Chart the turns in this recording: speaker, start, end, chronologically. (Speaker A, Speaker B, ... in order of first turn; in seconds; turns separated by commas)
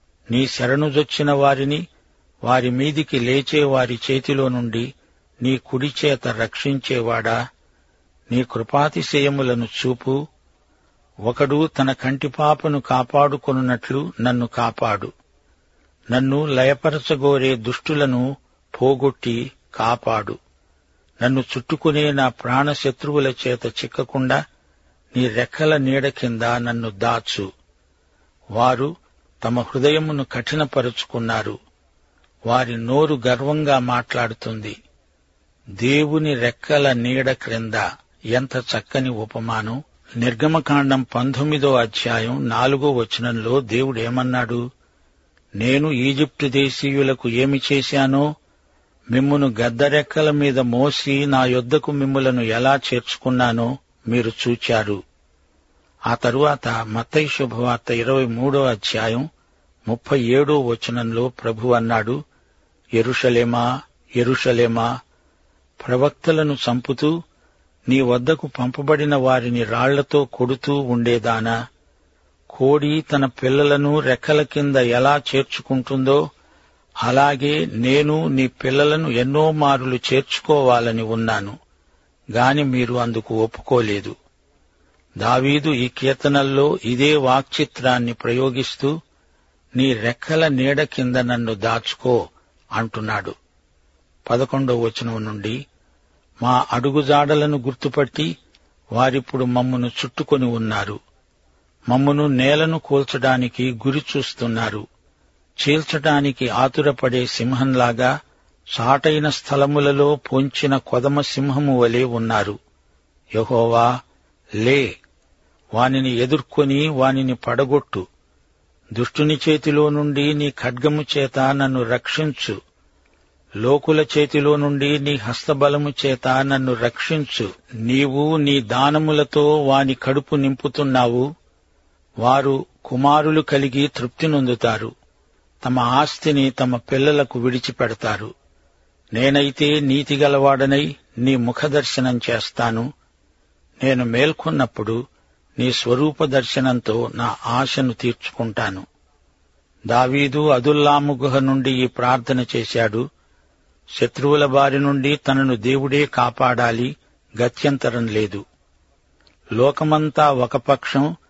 Speaker A: 0.3-1.8, Speaker A: 2.5-4.9, Speaker A: 5.4-7.4, Speaker A: 8.3-10.2, Speaker A: 11.3-15.1, Speaker A: 16.1-20.4, Speaker A: 21.2-24.4, Speaker A: 25.1-27.5, Speaker A: 28.6-31.6, Speaker A: 32.5-34.8, Speaker A: 35.8-44.6, Speaker A: 45.6-48.2, Speaker A: 49.1-55.0, Speaker A: 56.1-59.2, Speaker A: 59.9-62.2, Speaker A: 63.0-63.6, Speaker A: 64.2-64.9, Speaker A: 65.8-67.1, Speaker A: 67.9-71.5, Speaker A: 72.5-76.2, Speaker A: 77.0-81.5, Speaker A: 82.3-84.1, Speaker A: 85.2-88.9, Speaker A: 89.8-92.2, Speaker A: 92.8-93.3, Speaker A: 94.3-95.6, Speaker A: 96.4-98.3, Speaker A: 99.0-101.0, Speaker A: 101.9-104.8, Speaker A: 105.6-108.1, Speaker A: 108.7-112.5, Speaker A: 113.4-113.9, Speaker A: 114.6-114.9, Speaker A: 115.8-118.0, Speaker A: 118.9-122.6, Speaker A: 123.6-131.2, Speaker A: 132.2-134.9, Speaker A: 135.6-138.3, Speaker A: 139.2-142.9, Speaker A: 143.8-145.0, Speaker A: 145.6-148.8, Speaker A: 149.9-153.0, Speaker A: 154.0-158.4, Speaker A: 159.6-161.1